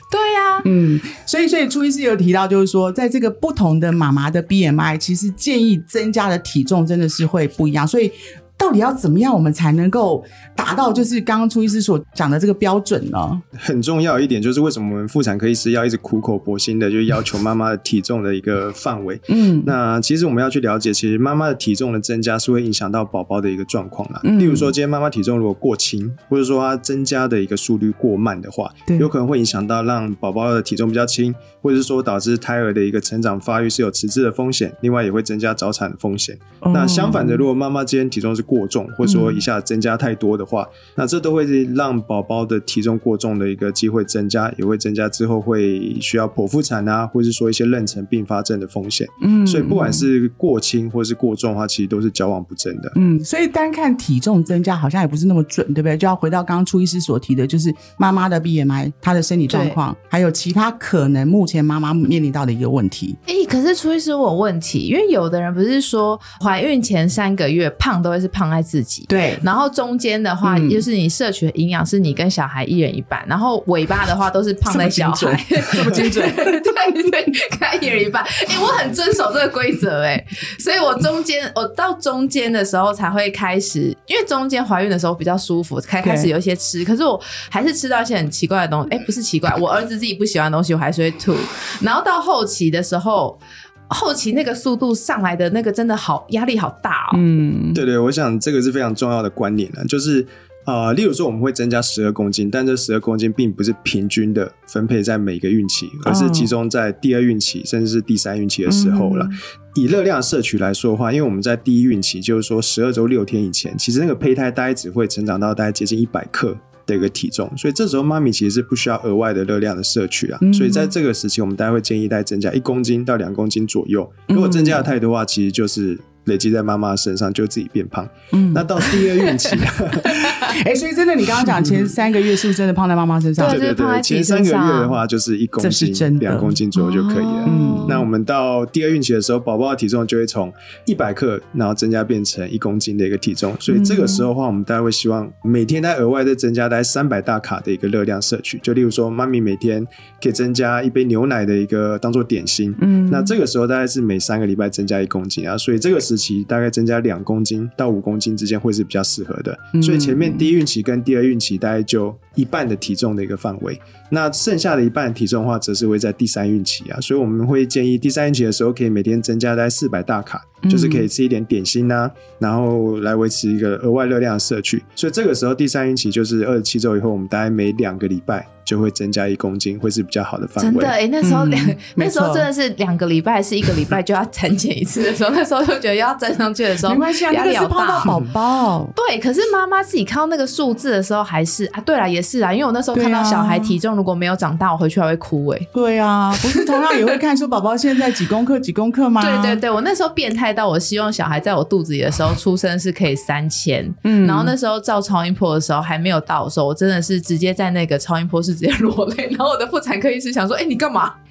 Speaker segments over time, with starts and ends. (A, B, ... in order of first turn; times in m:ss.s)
0:00.1-0:00.7 A
0:00.6-0:13.4 B
0:13.6-0:53.0 C
0:19.3-0:19.8 B
0:24.2-0:24.8 B
0:36.6-0:37.5 B
0:39.0-0:39.4 B
0:49.2-0:50.1 B
0:53.0-1:03.2 B
0:59.5-0:59.8 A
1:03.3-1:37.2 A
1:09.1-1:09.4 B
1:10.4-1:10.8 B
1:14.6-1:17.0 B
1:26.0-1:26.3 B
1:37.1-1:37.8 B
1:37.7-2:10.5 C
1:46.0-1:46.5 B
1:48.7-1:49.4 B
2:00.4-2:00.9 B
2:04.3-2:04.9 B
2:08.3-2:08.7 B
2:10.1-2:13.6 B
2:13.4-2:15.0 A
2:13.4-3:01.0 C
2:15.6-2:16.6 B
2:16.8-2:18.0 A
2:17.5-2:18.1 B
2:23.7-2:24.3 B
2:32.8-2:33.3 B
2:39.8-2:40.5 B
2:50.6-2:51.1 B
3:00.6-3:08.1 A
3:01.2-3:02.5 B
3:06.8-3:08.9 B
3:09.0-3:15.7 A
3:12.9-3:13.8 B
3:15.7-3:19.6 B
3:16.5-3:17.1 A
3:19.2-3:31.2 A
3:24.0-3:24.5 B